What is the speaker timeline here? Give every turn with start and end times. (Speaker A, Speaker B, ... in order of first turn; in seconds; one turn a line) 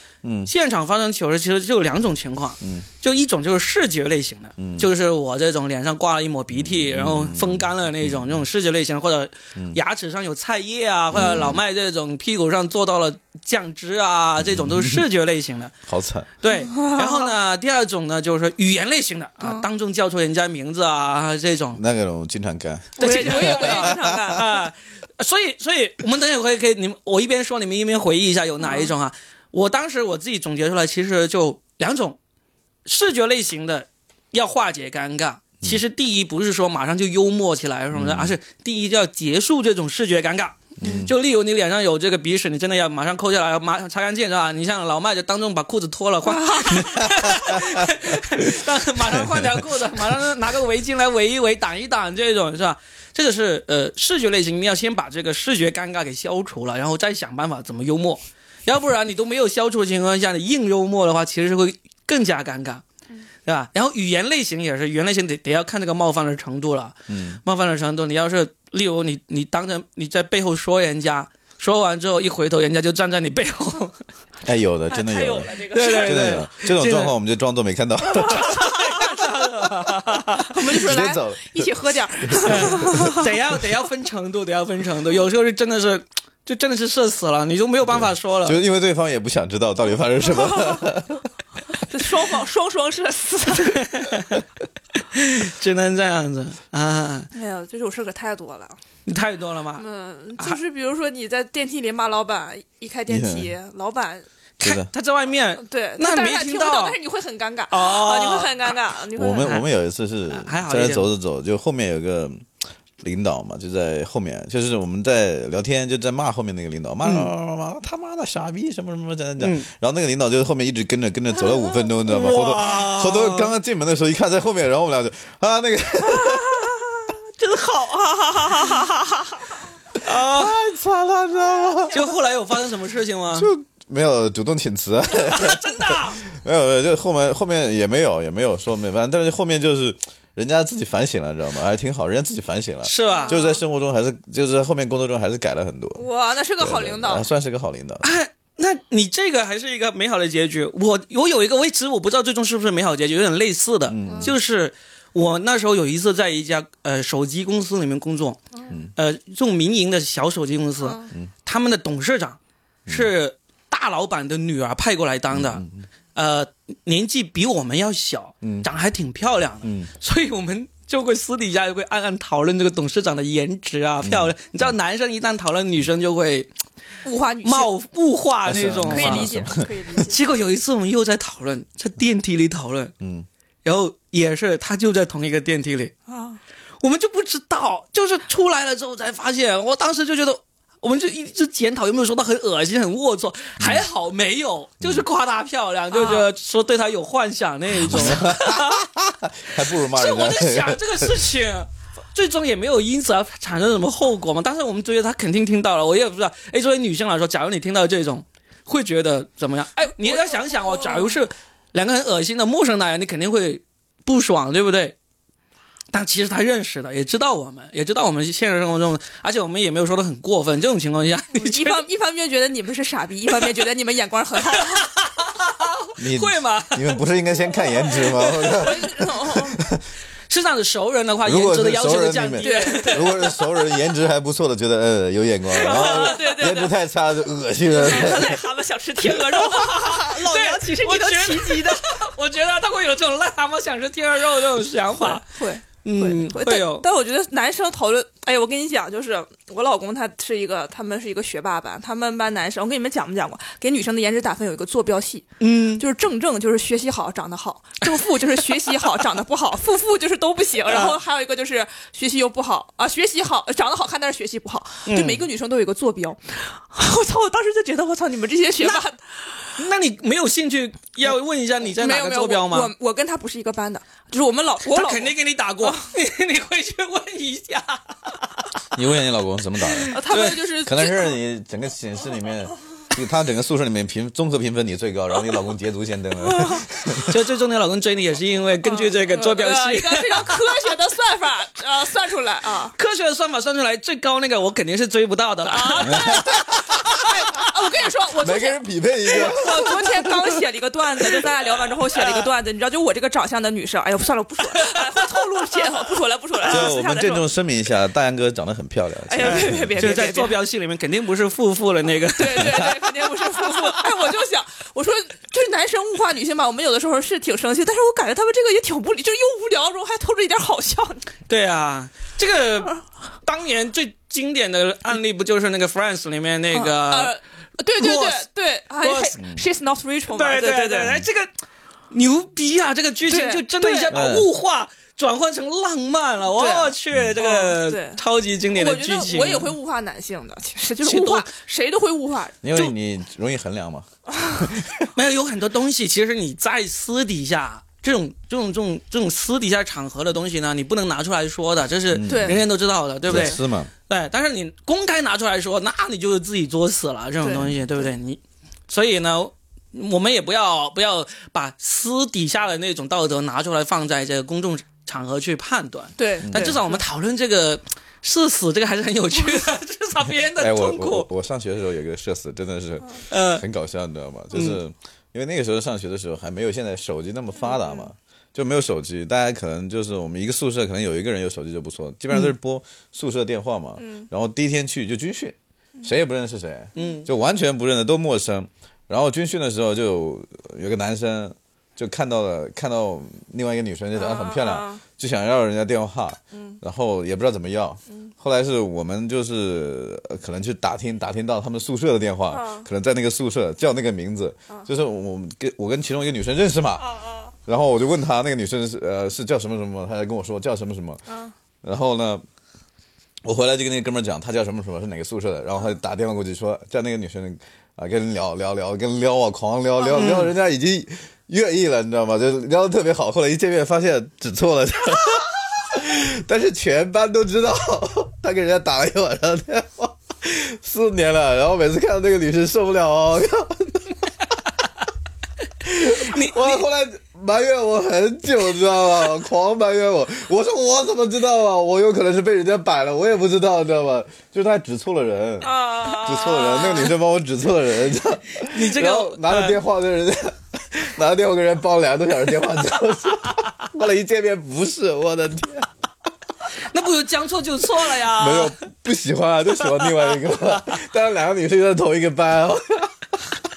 Speaker A: 0.2-0.5
Speaker B: 0.5-15.7
Speaker A: 2.6-2.9
Speaker A: 4.6-4.9
Speaker A: 6.5-8.4
Speaker A: 11.1-11.6
Speaker C: 11.2-11.5
Speaker A: 14.4-15.0
Speaker A: 15.8-16.3
Speaker B: 16.4-21.8
Speaker C: 16.6-17.3
Speaker A: 21.7-24.4
Speaker C: 23.0-24.4
Speaker B: 23.0-32.2
Speaker C: 28.6-28.9
Speaker B: 32.8-62.8
Speaker A: 37.9-38.3
Speaker A: 40.8-41.1
Speaker C: 46.2-47.0
Speaker A: 49.1-49.4
Speaker B: 63.4-74.0
Speaker A: 67.1-67.4
Speaker A: 74.4-78.7
Speaker C: 74.9-76.4
Speaker B: 75.6-77.1
Speaker B: 78.2-80.6
Speaker C: 78.2-79.2
Speaker C: 80.5-83.3
Speaker A: 80.7-81.7
Speaker A: 82.2-83.2
Speaker B: 82.4-88.6
Speaker A: 87.9-91.2
Speaker C: 90.4-90.8
Speaker C: 91.8-94.0
Speaker B: 93.6-94.4
Speaker B: 95.0-97.3
Speaker C: 97.3-98.8
Speaker B: 99.0-99.8
Speaker C: 99.8-104.2
Speaker A: 103.1-103.5
Speaker B: 104.6-107.0
Speaker A: 104.6-104.9
Speaker C: 105.6-109.5
Speaker B: 107.7-108.7
Speaker A: 109.1-112.5
Speaker B: 110.3-111.1
Speaker A: 113.0-126.8
Speaker B: 117.0-117.3
Speaker B: 119.4-119.7
Speaker B: 122.0-123.5
Speaker C: 126.1-129.5
Speaker B: 130.0-130.5
Speaker A: 130.2-132.0
Speaker B: 131.9-133.5
Speaker A: 133.3-146.0
Speaker B: 135.1-136.2
Speaker B: 142.8-143.4
Speaker C: 143.1-143.6
Speaker C: 145.9-147.3
Speaker A: 146.6-148.0
Speaker B: 148.0-158.4
Speaker A: 153.9-154.3
Speaker C: 154.1-154.3
Speaker B: 158.9-176.5
Speaker C: 160.8-161.1
Speaker A: 165.3-165.8
Speaker A: 168.4-168.7
Speaker A: 169.6-169.9
Speaker A: 174.0-174.7
Speaker C: 177.0-177.7
Speaker B: 177.4-179.3
Speaker A: 178.4-179.7
Speaker C: 178.9-180.2
Speaker B: 180.0-182.9
Speaker A: 183.0-183.3
Speaker B: 183.6-185.9
Speaker C: 186.1-186.4
Speaker B: 186.8-198.8
Speaker C: 195.9-196.3
Speaker A: 197.8-201.2
Speaker B: 199.9-215.0
Speaker C: 210.0-211.2
Speaker B: 215.9-221.8
Speaker C: 221.3-224.9
Speaker B: 224.6-226.9
Speaker A: 226.0-229.8
Speaker C: 228.2-229.6
Speaker B: 230.3-233.3
Speaker A: 231.2-238.4
Speaker C: 232.4-233.5
Speaker B: 235.5-236.3
Speaker C: 235.6-236.7
Speaker C: 237.7-241.8
Speaker B: 239.2-245.2
Speaker C: 245.0-269.5
Speaker B: 245.8-246.8
Speaker B: 255.4-255.8
Speaker B: 260.7-261.0
Speaker B: 264.9-265.2
Speaker B: 269.6-272.7
Speaker C: 271.6-275.8
Speaker B: 274.7-278.1
Speaker A: 278.7-287.1
Speaker B: 279.9-280.4
Speaker C: 279.9-281.2
Speaker C: 286.2-286.6
Speaker B: 287.0-290.4
Speaker C: 288.6-292.7
Speaker B: 292.8-296.2
Speaker C: 295.5-307.2
Speaker A: 295.8-296.8
Speaker A: 298.2-300.3
Speaker A: 306.4-310.0
Speaker C: 309.1-310.3
Speaker B: 309.2-312.7
Speaker C: 312.1-321.1
Speaker B: 321.3-327.1
Speaker C: 326.5-330.9
Speaker B: 327.8-328.2
Speaker B: 328.8-329.1
Speaker B: 330.1-331.3
Speaker B: 331.9-339.5
Speaker C: 333.1-334.0
Speaker A: 333.9-334.3
Speaker C: 336.4-342.5
Speaker B: 340.8-341.3
Speaker A: 342.4-344.9
Speaker C: 344.1-344.4
Speaker B: 344.9-371.1
Speaker A: 351.9-352.4
Speaker C: 352.1-352.4
Speaker A: 353.0-353.7
Speaker C: 357.2-357.5
Speaker C: 366.0-366.8
Speaker A: 366.2-366.6
Speaker A: 370.4-406.8
Speaker B: 373.1-373.4
Speaker B: 374.3-374.6
Speaker C: 377.4-377.9
Speaker C: 383.8-384.1
Speaker B: 386.8-387.1
Speaker C: 393.9-394.8
Speaker C: 396.3-396.6
Speaker C: 402.3-402.7
Speaker C: 406.8-407.3
Speaker A: 407.4-411.0
Speaker C: 411.1-411.3
Speaker A: 411.6-412.2
Speaker A: 413.2-434.0
Speaker C: 419.8-420.1
Speaker B: 419.9-420.3
Speaker A: 435.6-455.7
Speaker B: 435.9-436.6
Speaker C: 445.4-447.0
Speaker B: 448.5-449.6
Speaker B: 456.7-458.5
Speaker A: 458.0-463.2